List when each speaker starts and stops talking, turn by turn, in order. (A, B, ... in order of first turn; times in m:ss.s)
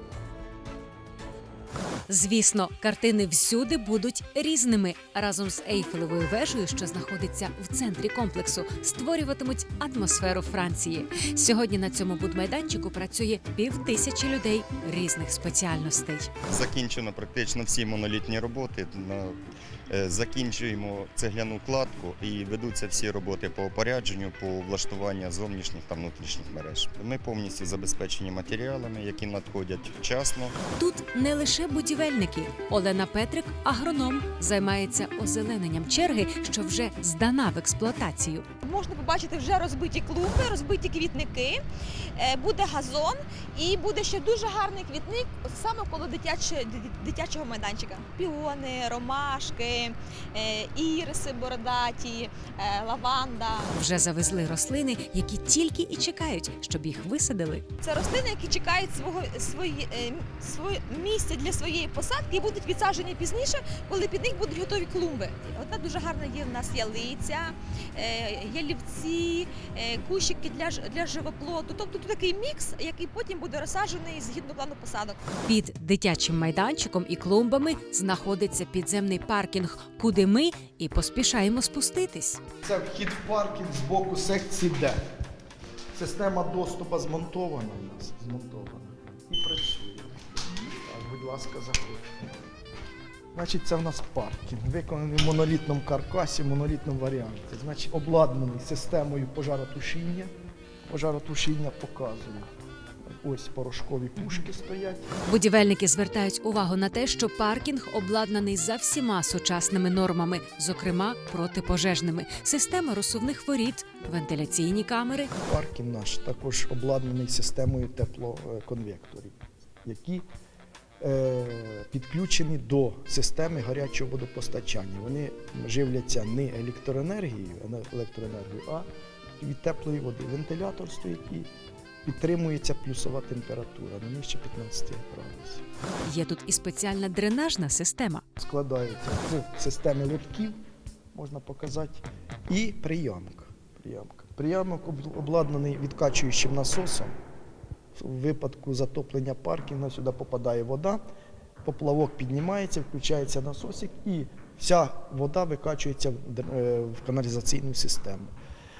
0:02.1-0:16.3 A
0:16.5-0:19.4 B
0:19.9-0:30.6 B
0:30.8-0:38.4 A
0:38.6-0:41.6 C
0:42.2-0:53.6 C
0:53.7-0:57.6 A
0:57.8-1:15.2 C
1:15.4-1:22.4 A
1:22.6-1:25.0 D
1:25.9-1:32.2 D
1:33.3-1:40.3 D
1:40.9-1:42.5 D
1:43.2-1:45.0 D
1:45.2-1:55.3 A
1:55.4-2:00.2 D
2:01.0-2:08.9 D
2:09.4-2:11.5 D
2:12.0-2:15.6 D
2:16.0-2:18.2 A
2:18.4-2:20.6 D
2:21.1-2:27.1 D
2:27.9-2:31.0 D
2:31.6-2:38.3 D